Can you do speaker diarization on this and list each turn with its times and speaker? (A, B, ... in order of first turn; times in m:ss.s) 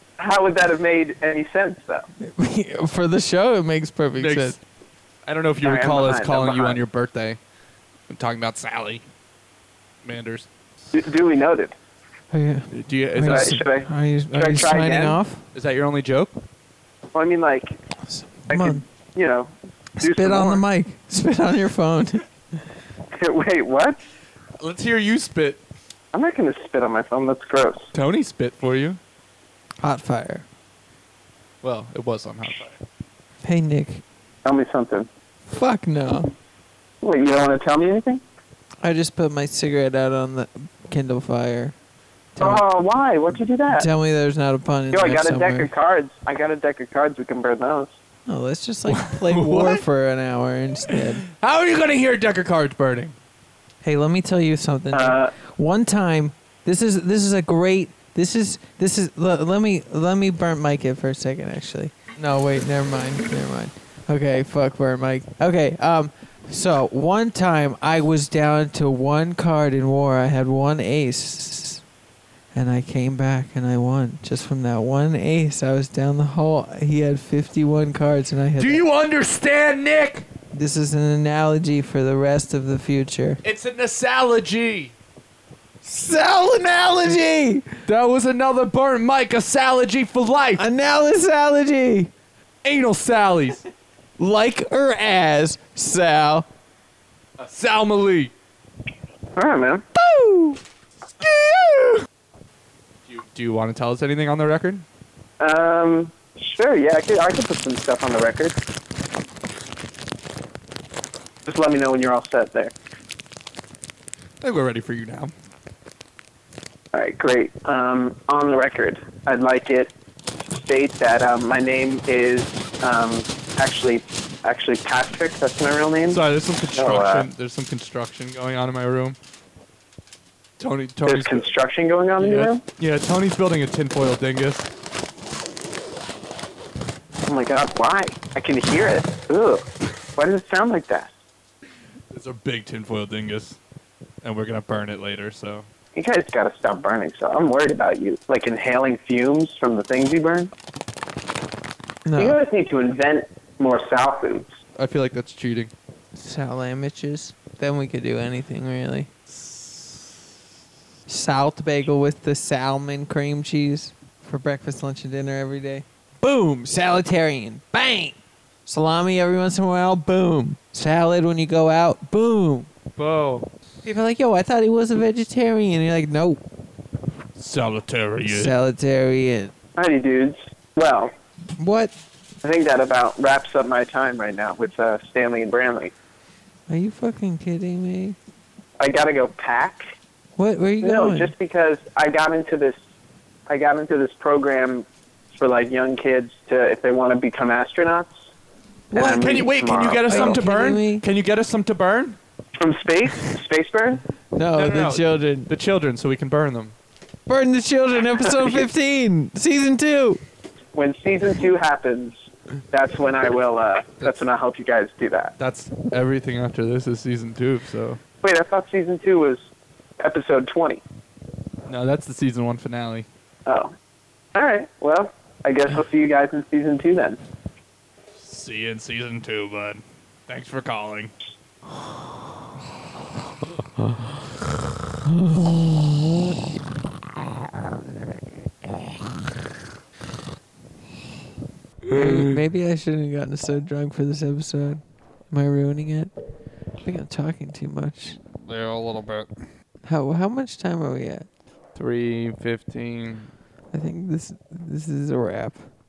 0:00.2-0:02.1 A
0:02.2-0:04.6 B
0:04.1-0:04.6 C
0:05.2-0:07.4 C
0:05.6-0:06.8 A
0:08.1-0:09.0 C
0:10.0-0:10.5 C
0:10.9-0:11.7 A
0:12.3-0:15.4 B
0:12.7-0:13.6 C
0:13.2-0:15.2 A
0:15.5-0:16.4 C
0:17.1-0:17.8 A
0:18.1-0:18.8 B
0:18.5-0:20.6 A
0:20.0-0:22.2 B
0:23.1-0:24.0 A
0:24.6-0:25.6 C
0:26.1-0:27.9 A
0:27.9-0:29.0 C
0:29.8-0:30.4 B
0:31.6-0:32.8 C
0:33.4-0:34.0 B
0:34.4-0:35.1 A
0:35.5-0:36.3 B
0:37.0-0:38.2 A
0:38.8-0:41.7 B
0:42.4-0:42.6 B
0:42.4-0:43.9 A
0:43.7-0:45.7 B
0:44.9-0:47.9 A
0:48.3-0:51.2 B
0:48.9-0:49.8 C
0:50.9-0:53.1 C
0:53.8-1:11.8 B
0:54.9-0:55.3 A
1:12.5-1:18.8 B
1:18.6-1:20.2 C
1:20.5-1:23.4 B
1:23.4-1:24.9 C
1:25.8-1:27.8 B
1:27.8-1:30.6 C
1:30.6-1:32.1 B
1:32.6-1:33.6 C
1:34.2-1:36.4 B
1:37.4-1:38.3 C
1:39.4-1:39.8 A
1:40.0-1:40.6 B
1:41.2-1:42.0 C
1:43.0-1:44.8 C
1:45.4-1:48.6 A
1:51.4-1:52.7 A
1:54.4-1:55.3 C
1:56.9-1:59.9 A
2:00.5-2:07.3 A
2:06.1-2:09.2 C
2:10.6-2:11.5 C
2:11.0-2:12.6 A
2:12.2-2:14.7 C
2:17.3-2:21.1 A
2:22.1-2:23.6 C
2:24.2-2:25.7 C
2:25.9-2:30.5 A
2:32.0-2:32.4 B
2:32.2-2:34.5 A
2:34.8-2:35.7 C
2:36.1-2:39.1 B
2:39.3-2:40.0 C
2:41.1-2:52.7 B
2:53.0-2:53.5 C
2:53.8-2:56.4 B
2:57.4-2:58.6 C
2:58.2-2:59.5 B
2:59.8-3:01.1 A
3:01.6-3:01.9 B
3:02.4-3:05.9 A
3:06.7-3:08.2 B
3:08.8-3:09.8 A
3:10.4-3:11.3 B
3:10.8-3:12.8 A
3:13.5-3:18.1 A
3:18.9-3:19.3 B
3:18.9-3:20.4 A
3:19.0-3:22.2 C
3:20.1-3:21.0 B
3:22.6-3:24.0 A
3:24.3-3:25.5 B
3:24.5-3:26.7 C
3:27.3-3:30.2 B
3:28.2-3:28.6 A
3:30.7-3:32.1 A
3:32.7-3:35.3 A
3:35.4-3:38.0 C
3:38.2-3:39.4 A
3:40.0-3:40.8 A
3:41.7-3:43.1 C
3:43.4-3:43.7 A
3:44.3-3:47.2 A
3:48.2-3:51.1 C
3:55.0-3:56.4 B
4:01.9-4:02.4 C
4:01.9-4:06.1 B
4:06.8-4:08.2 B
4:08.3-4:09.3 C
4:09.8-4:11.3 B
4:11.7-4:13.3 C
4:13.7-4:15.6 B